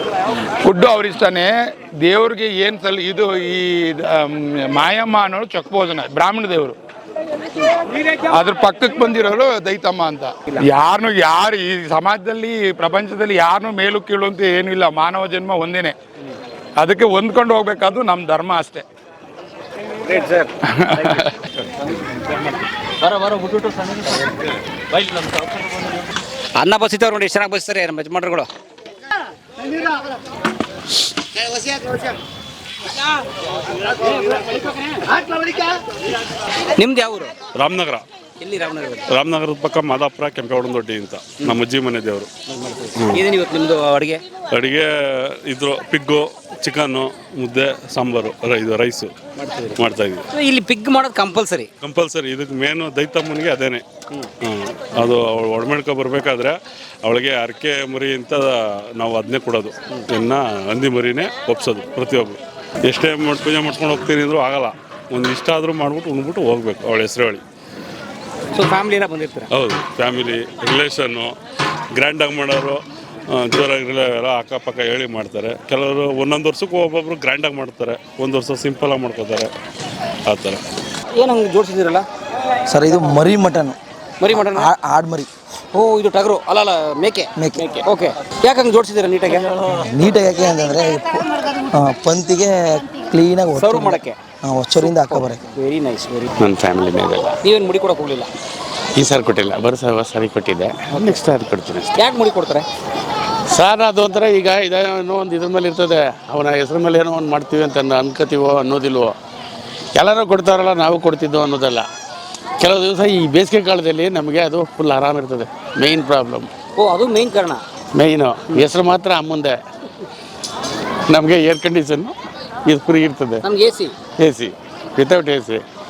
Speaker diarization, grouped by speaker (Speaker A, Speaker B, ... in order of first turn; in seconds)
Speaker A: 0.6-6.8, 8.3-15.9, 16.8-18.9, 20.8-21.1
Speaker B: 20.0-21.3, 26.6-28.5, 33.9-35.5, 36.7-37.3, 38.4-39.1, 42.5-44.2, 49.4-49.8, 50.3-51.7, 68.5-69.5, 81.1-82.0, 84.2-84.7, 85.7-89.5, 93.5-94.2, 94.8-96.3, 97.4-98.3, 102.0-102.7, 116.8-117.6, 123.4-123.9
Speaker C: 37.5-38.0, 39.1-42.3, 44.5-44.9, 45.5-49.1, 49.8-50.2, 51.8-53.8, 54.4-67.4, 69.5-71.3, 72.0-72.8, 73.3-79.5, 80.3-80.6
Speaker D: 82.7-83.8, 84.3-85.3, 87.4-87.6, 89.7-91.2, 91.7-95.4
Speaker E: 96.4-97.4, 99.0-101.9, 103.5-109.1, 110.0-111.8, 112.6-116.5, 118.0-119.5, 121.1-122.1, 122.7-123.4, 124.2-125.6